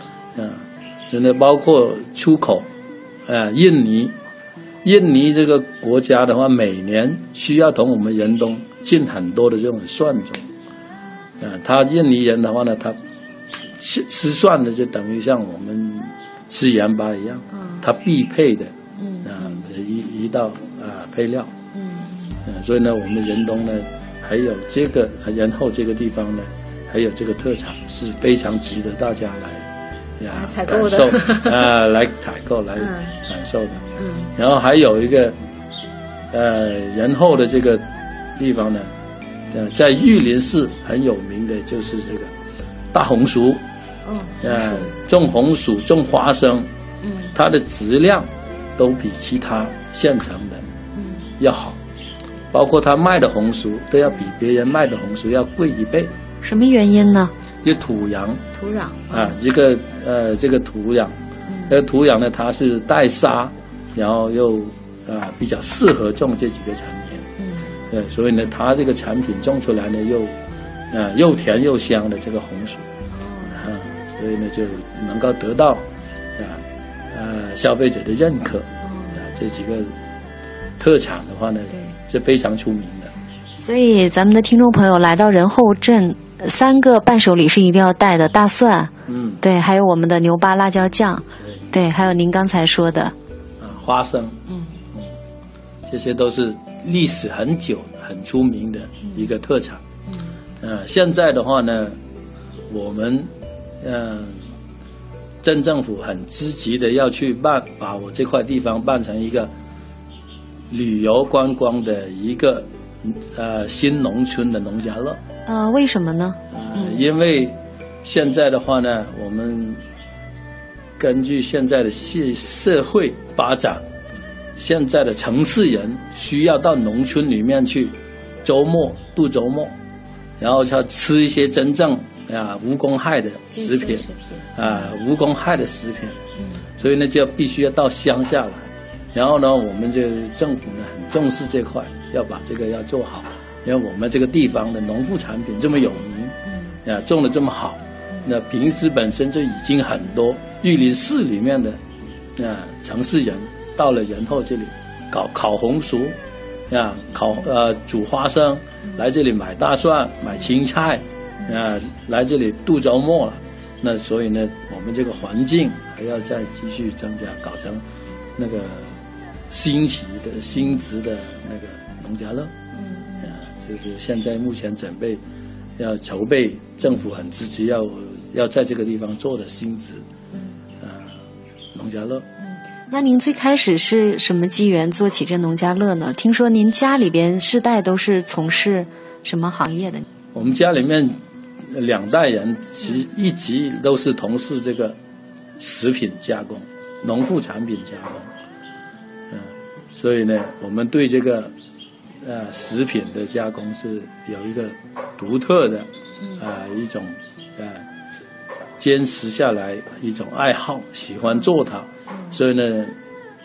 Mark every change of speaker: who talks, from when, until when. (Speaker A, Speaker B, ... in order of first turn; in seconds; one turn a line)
Speaker A: 0.3-2.7
Speaker A: 3.3-4.1
Speaker A: 4.8-10.4
Speaker A: 11.4-13.0
Speaker A: 13.8-21.5
Speaker B: 21.8-22.2
Speaker A: 22.4-29.7
Speaker A: 30.2-35.4
Speaker B: 30.4-31.4
Speaker B: 34.0-34.3
Speaker A: 36.3-37.8
Speaker A: 38.4-38.9
Speaker A: 39.5-42.3
Speaker A: 42.9-43.6
Speaker B: 44.1-44.4
Speaker A: 44.4-46.7
Speaker A: 47.3-50.6
Speaker A: 51.4-51.8
Speaker A: 52.5-56.1
Speaker B: 56.4-57.3
Speaker A: 57.6-58.4
Speaker B: 58.5-59.3
Speaker A: 59.1-61.1
Speaker A: 61.7-67.2
Speaker A: 67.9-70.3
Speaker A: 70.9-72.8
Speaker A: 73.5-75.8
Speaker A: 76.4-79.9
Speaker A: 80.8-83.1
Speaker B: 83.6-93.1
Speaker A: 89.1-89.4
Speaker A: 93.6-94.4
Speaker A: 95.9-99.8
Speaker A: 100.6-102.0
Speaker A: 102.7-103.3
Speaker A: 103.8-104.4
Speaker A: 105.4-109.5
Speaker A: 110.7-115.2
Speaker B: 115.5-117.0
Speaker A: 116.5-119.8
Speaker A: 121.0-123.8
Speaker A: 124.6-129.7
Speaker A: 130.4-136.2
Speaker B: 133.6-134.3
Speaker A: 136.8-151.8
Speaker A: 152.4-156.2
Speaker A: 156.7-167.8
Speaker A: 168.4-169.0
Speaker A: 169.5-172.5
Speaker B: 172.7-173.2
Speaker A: 173.2-175.2
Speaker A: 175.8-180.0
Speaker A: 180.8-181.2
Speaker A: 181.7-182.2
Speaker B: 182.5-190.0
Speaker A: 190.3-191.2
Speaker A: 191.7-194.9
Speaker A: 195.6-198.3
Speaker A: 199.3-201.5
Speaker A: 202.2-207.8
Speaker A: 208.8-212.9